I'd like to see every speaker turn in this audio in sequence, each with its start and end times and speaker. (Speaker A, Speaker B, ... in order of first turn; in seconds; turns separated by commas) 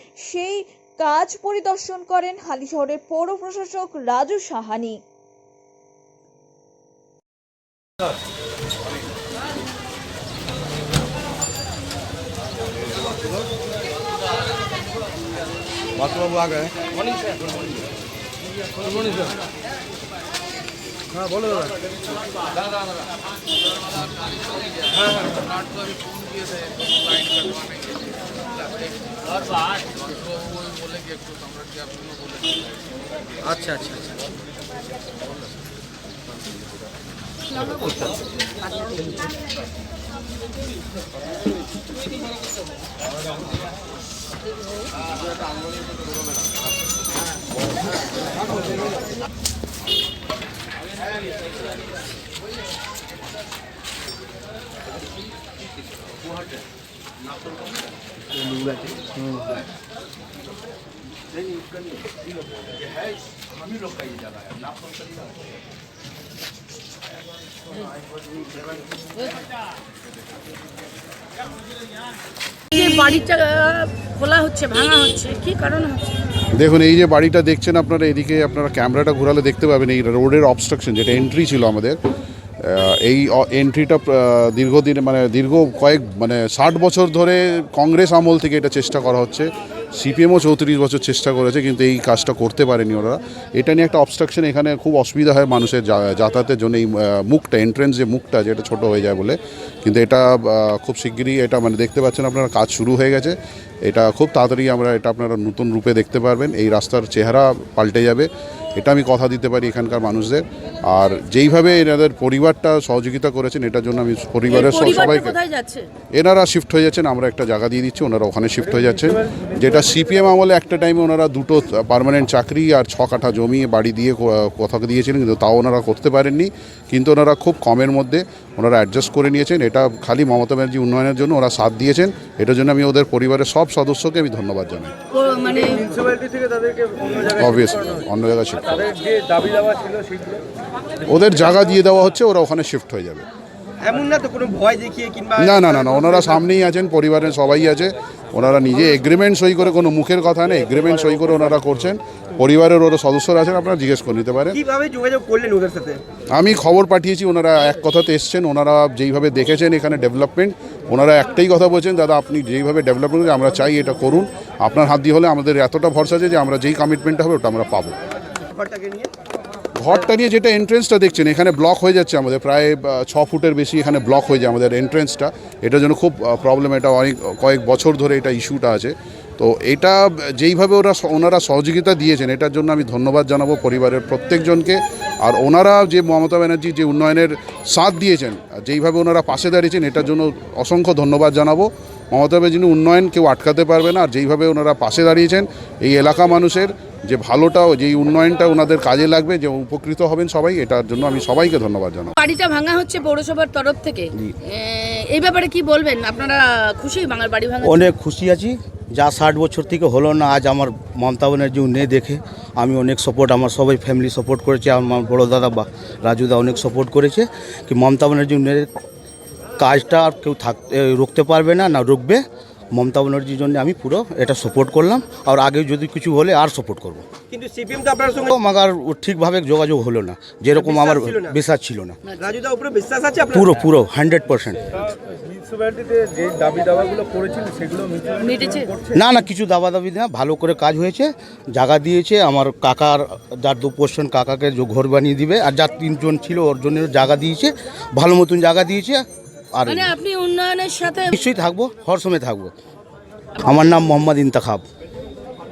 Speaker A: 0.3-5.0, Speaker B: 72.7-76.2, Speaker C: 76.5-82.0, Speaker C: 82.6-115.4, Speaker B: 114.5-115.9, Speaker C: 116.1-134.9, Speaker B: 135.1-136.2, Speaker D: 136.3-137.0, Speaker E: 137.0-137.3, Speaker C: 137.3-139.0, Speaker D: 139.0-140.4, Speaker C: 141.1-143.2, Speaker E: 143.8-146.4, Speaker C: 145.4-154.6, Speaker E: 154.5-156.0, Speaker C: 156.3-167.9, Speaker E: 168.5-169.1, Speaker C: 169.7-202.1, Speaker B: 202.2-207.9, Speaker F: 207.6-218.7, Speaker F: 219.6-222.2, Speaker F: 222.7-227.0, Speaker E: 227.3-228.3, Speaker F: 228.2-232.0, Speaker E: 230.5-231.3, Speaker B: 232.1-232.3, Speaker E: 232.2-233.4, Speaker F: 233.3-234.9, Speaker D: 235.3-238.1, Speaker B: 238.1-238.7, Speaker F: 238.9-249.9, Speaker B: 249.7-251.2, Speaker F: 251.1-252.5, Speaker F: 253.4-254.6